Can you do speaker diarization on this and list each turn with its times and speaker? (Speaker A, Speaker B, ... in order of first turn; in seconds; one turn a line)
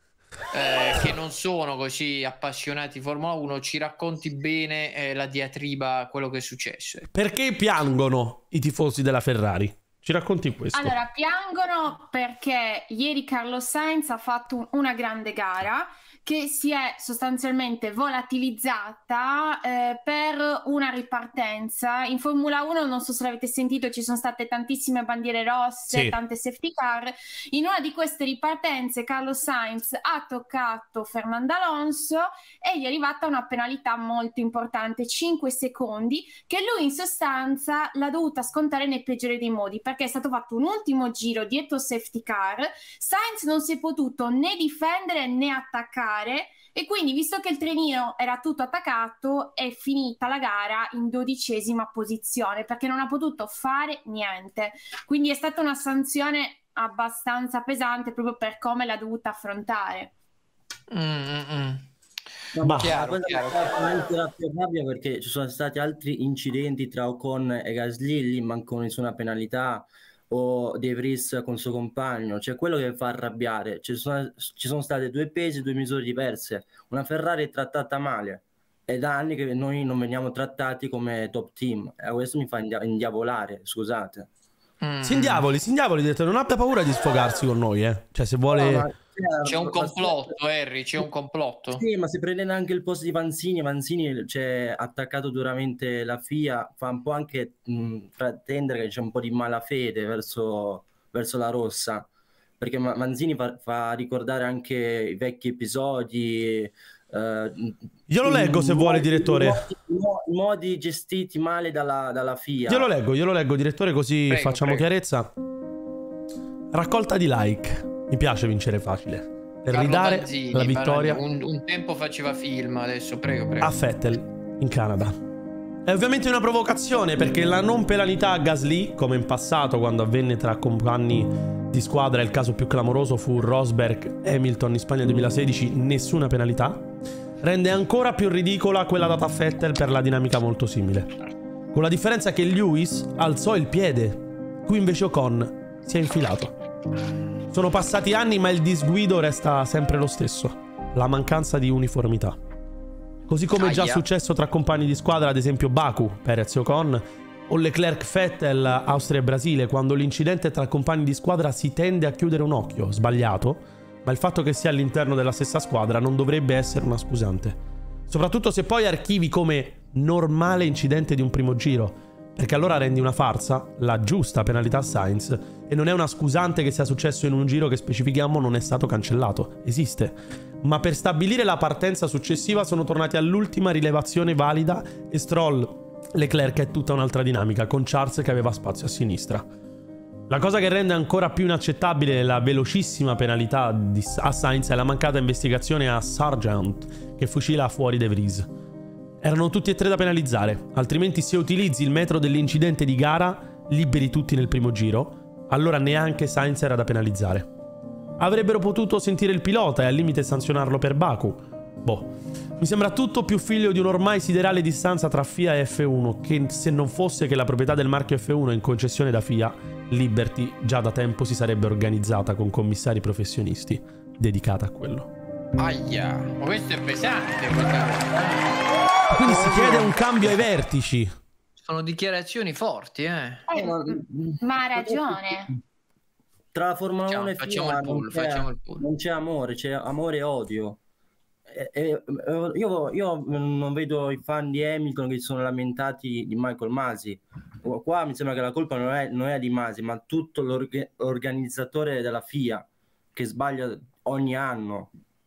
Speaker A: 0.5-7.1
Speaker B: 7.1-10.9
Speaker C: 10.7-60.1
Speaker B: 25.9-26.1
Speaker A: 60.9-61.9
Speaker D: 62.5-84.3
Speaker A: 62.6-63.8
Speaker A: 84.8-85.5
Speaker B: 85.0-88.9
Speaker D: 88.5-90.3
Speaker A: 89.4-91.8
Speaker D: 91.7-102.1
Speaker D: 102.6-112.9
Speaker B: 108.1-109.6
Speaker B: 112.7-115.3
Speaker A: 114.3-114.8
Speaker B: 116.7-121.2
Speaker A: 119.7-123.8
Speaker B: 123.6-125.2
Speaker B: 125.8-136.8
Speaker B: 137.4-141.1
Speaker B: 141.7-146.5
Speaker B: 147.5-152.4
Speaker B: 153.3-189.4
Speaker A: 153.5-154.0
Speaker B: 190.3-198.5
Speaker B: 199.2-207.5
Speaker B: 208.2-225.1
Speaker A: 225.6-228.6
Speaker B: 229.1-231.1
Speaker D: 229.2-230.4
Speaker A: 231.6-233.4
Speaker C: 233.5-235.5
Speaker D: 233.5-235.6
Speaker D: 236.5-240.8
Speaker A: 237.1-238.8
Speaker D: 241.5-254.9